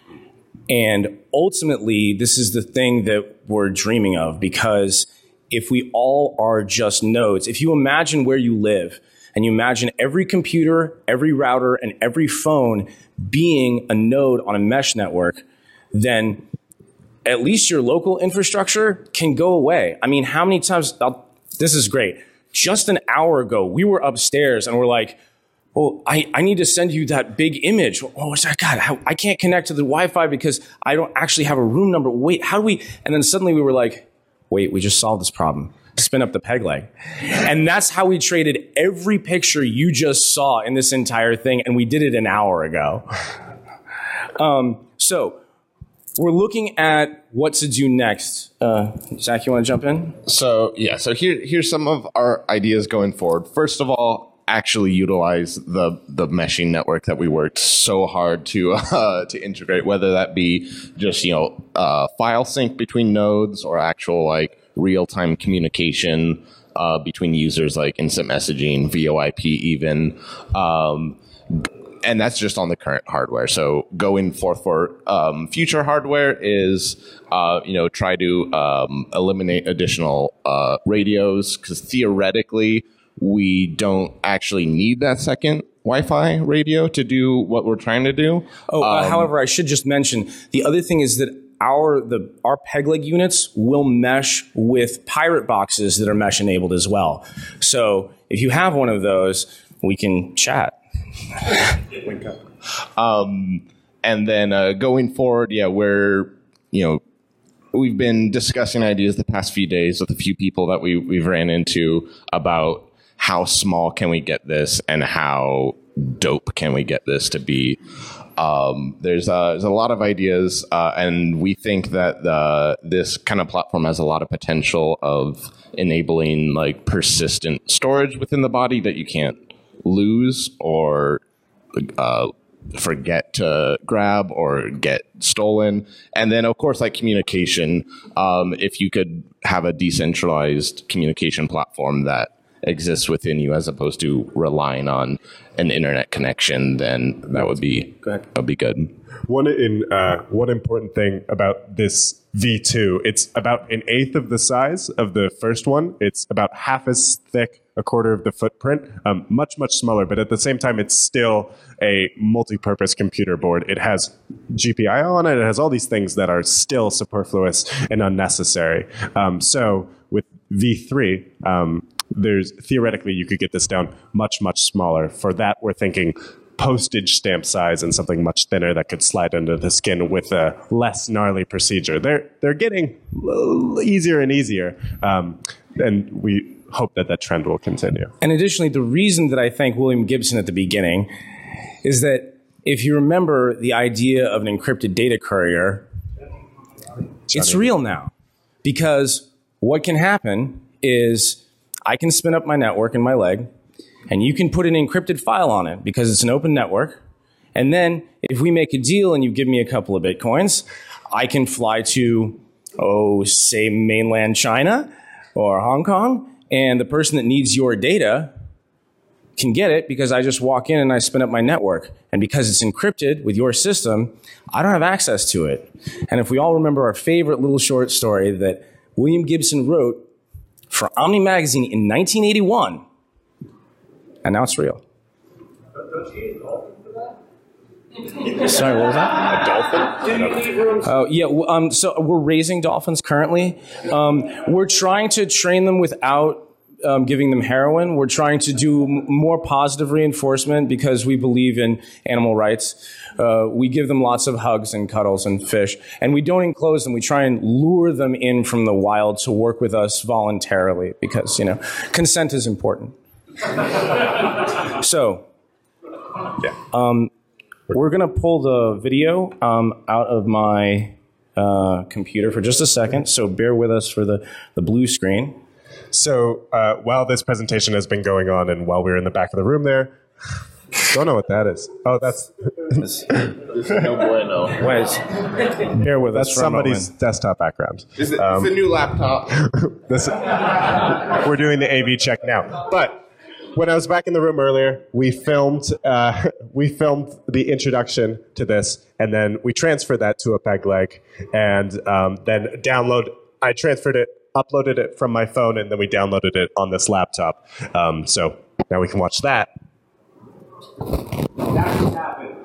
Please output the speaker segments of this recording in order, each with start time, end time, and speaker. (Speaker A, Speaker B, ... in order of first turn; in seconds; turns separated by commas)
Speaker A: 0.7-16.4, Speaker A: 17.2-25.2, Speaker A: 25.7-43.1, Speaker A: 44.4-45.4, Speaker A: 46.2-50.1, Speaker B: 50.2-89.3, Speaker A: 88.7-100.8, Speaker B: 103.0-107.0, Speaker B: 107.7-117.8, Speaker B: 118.4-131.2, Speaker B: 131.8-148.9, Speaker C: 149.3-188.1, Speaker A: 188.2-191.1, Speaker A: 191.8-195.8, Speaker A: 197.3-198.1, Speaker C: 197.3-197.6, Speaker A: 198.6-203.5, Speaker A: 204.1-207.0, Speaker A: 207.5-218.3, Speaker A: 219.4-230.1, Speaker A: 230.7-232.8, Speaker A: 234.2-234.8, Speaker A: 238.2-239.8, Speaker A: 240.7-262.9, Speaker A: 264.6-265.2, Speaker A: 266.6-267.1, Speaker A: 267.7-275.4, Speaker C: 275.9-279.9, Speaker C: 280.8-282.8, Speaker A: 282.8-283.1, Speaker B: 283.4-284.6, Speaker A: 284.6-285.1, Speaker A: 285.6-286.9, Speaker C: 285.8-288.6, Speaker B: 288.0-289.4, Speaker C: 289.4-293.0, Speaker C: 293.5-309.5